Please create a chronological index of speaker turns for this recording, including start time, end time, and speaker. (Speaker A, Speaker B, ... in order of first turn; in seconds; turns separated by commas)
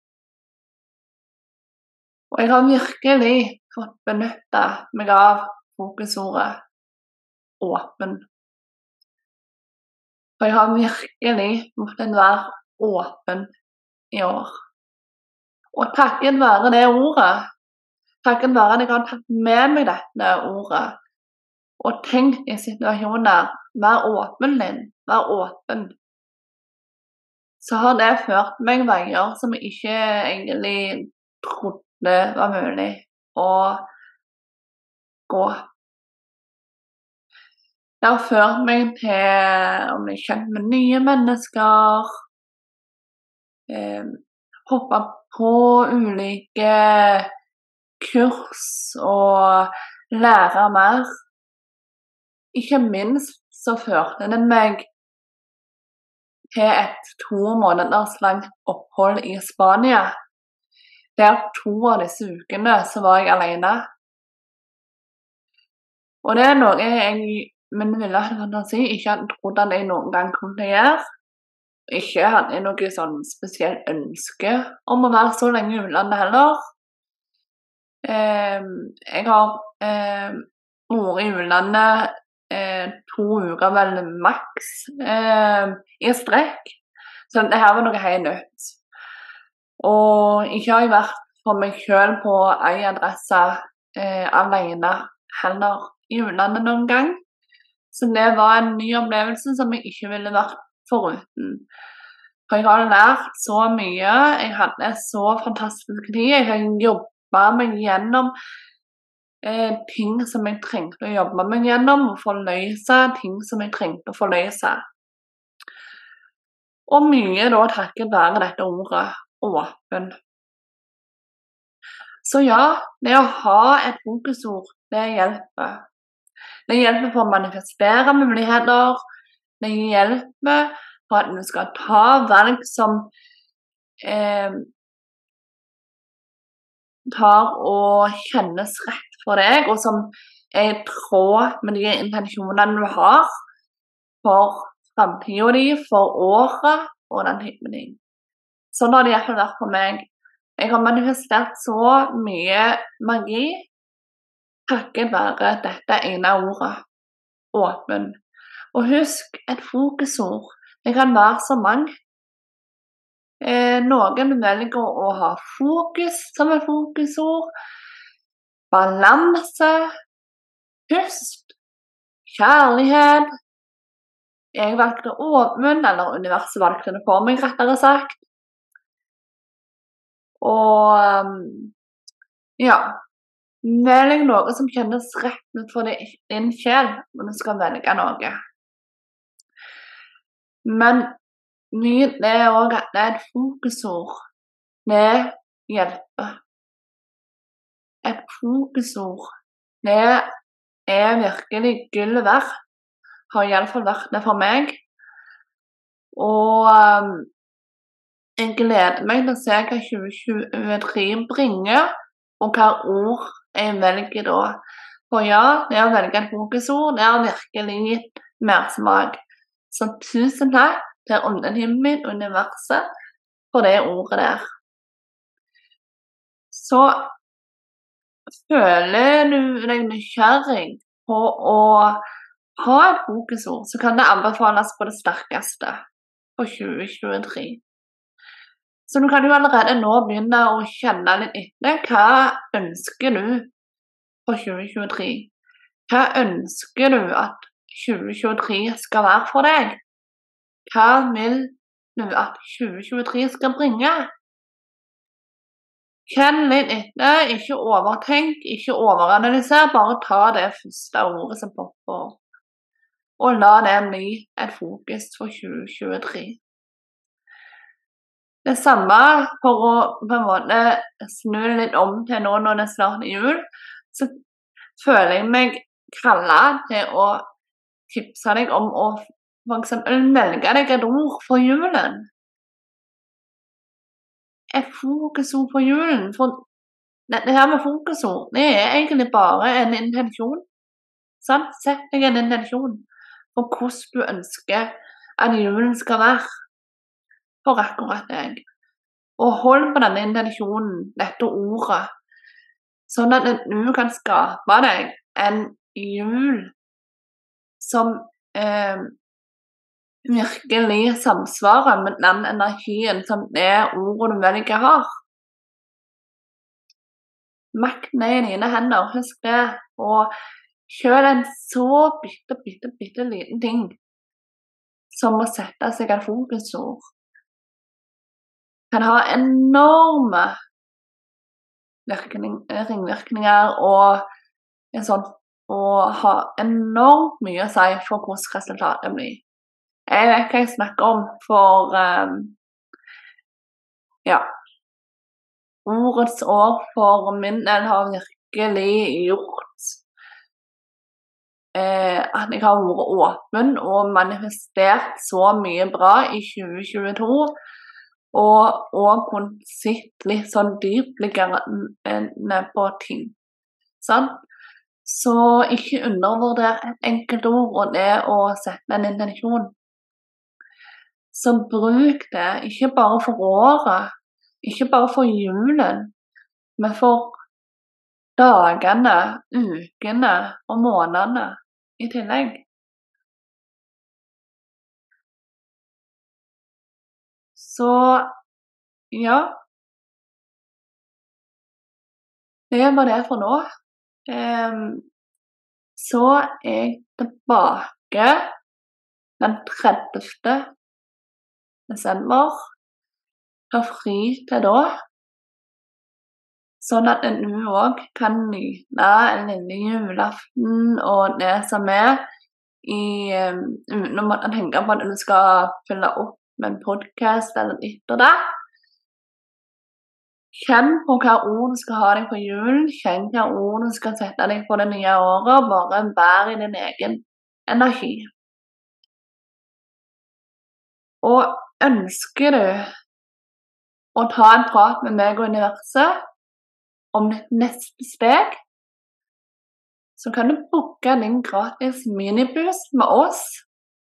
Speaker A: 2.3-6.6, Speaker A: 7.6-8.2, Speaker A: 10.4-13.5, Speaker A: 14.1-14.6, Speaker A: 15.7-17.5, Speaker A: 18.2-21.0, Speaker A: 21.8-25.9, Speaker A: 27.6-33.9, Speaker A: 35.3-35.7, Speaker A: 38.0-42.1, Speaker A: 43.7-47.3, Speaker A: 48.0-51.1, Speaker A: 52.5-54.9, Speaker A: 56.5-60.1, Speaker A: 61.2-63.9, Speaker A: 66.2-71.0, Speaker A: 71.9-76.6, Speaker A: 78.0-88.8, Speaker A: 89.8-97.2, Speaker A: 97.9-101.6, Speaker A: 102.5-108.3, Speaker A: 109.4-114.8, Speaker A: 116.9-120.2, Speaker A: 122.2-125.8, Speaker A: 126.7-129.0, Speaker A: 129.6-133.1, Speaker A: 134.0-134.7, Speaker A: 137.1-143.3, Speaker A: 144.2-148.0, Speaker A: 148.7-153.7, Speaker A: 154.7-156.8, Speaker A: 157.5-158.2, Speaker A: 158.7-161.9, Speaker A: 163.4-167.5, Speaker A: 168.7-169.8, Speaker A: 170.9-171.6, Speaker A: 172.3-173.3, Speaker A: 174.5-178.2, Speaker A: 180.4-181.7, Speaker A: 182.6-183.0, Speaker A: 183.6-188.4, Speaker A: 190.7-191.1, Speaker A: 191.7-194.2, Speaker A: 194.9-196.4, Speaker A: 198.0-199.3, Speaker A: 199.8-200.3, Speaker A: 200.9-202.5, Speaker A: 203.3-204.8, Speaker A: 206.1-207.3, Speaker A: 208.4-211.9, Speaker A: 212.4-219.2, Speaker A: 219.7-222.9, Speaker A: 223.5-224.5, Speaker A: 226.5-227.1, Speaker A: 228.4-232.0, Speaker A: 232.6-235.8, Speaker A: 236.4-237.6, Speaker A: 238.9-243.5, Speaker A: 244.3-245.3, Speaker A: 245.9-249.8, Speaker A: 250.7-254.1, Speaker A: 256.1-262.2, Speaker A: 263.2-266.4, Speaker A: 268.4-274.1, Speaker A: 274.8-277.2, Speaker A: 277.9-282.1, Speaker A: 284.5-286.4, Speaker A: 287.1-290.4, Speaker A: 291.2-296.3, Speaker A: 297.4-298.4, Speaker A: 299.2-301.9, Speaker A: 302.9-306.5, Speaker A: 307.6-308.9, Speaker A: 310.1-315.0, Speaker A: 317.5-320.1, Speaker A: 320.7-323.8, Speaker A: 324.9-326.9, Speaker A: 328.7-330.4, Speaker A: 331.9-334.1, Speaker A: 334.7-339.2, Speaker A: 339.9-342.4, Speaker A: 345.7-349.8, Speaker A: 351.5-357.3, Speaker A: 358.1-363.2, Speaker A: 363.8-364.1, Speaker A: 364.9-369.5, Speaker A: 371.1-375.9, Speaker A: 376.6-377.2, Speaker A: 378.2-382.4, Speaker A: 387.4-388.1, Speaker A: 388.9-389.4, Speaker A: 392.5-393.4, Speaker A: 394.1-394.9, Speaker A: 395.8-398.3, Speaker A: 399.2-400.5, Speaker A: 401.7-402.5, Speaker A: 403.5-404.7, Speaker A: 406.6-412.0, Speaker A: 412.6-418.2, Speaker A: 420.3-428.1, Speaker A: 431.0-432.7, Speaker A: 433.9-436.0, Speaker A: 436.9-438.4, Speaker A: 440.0-443.5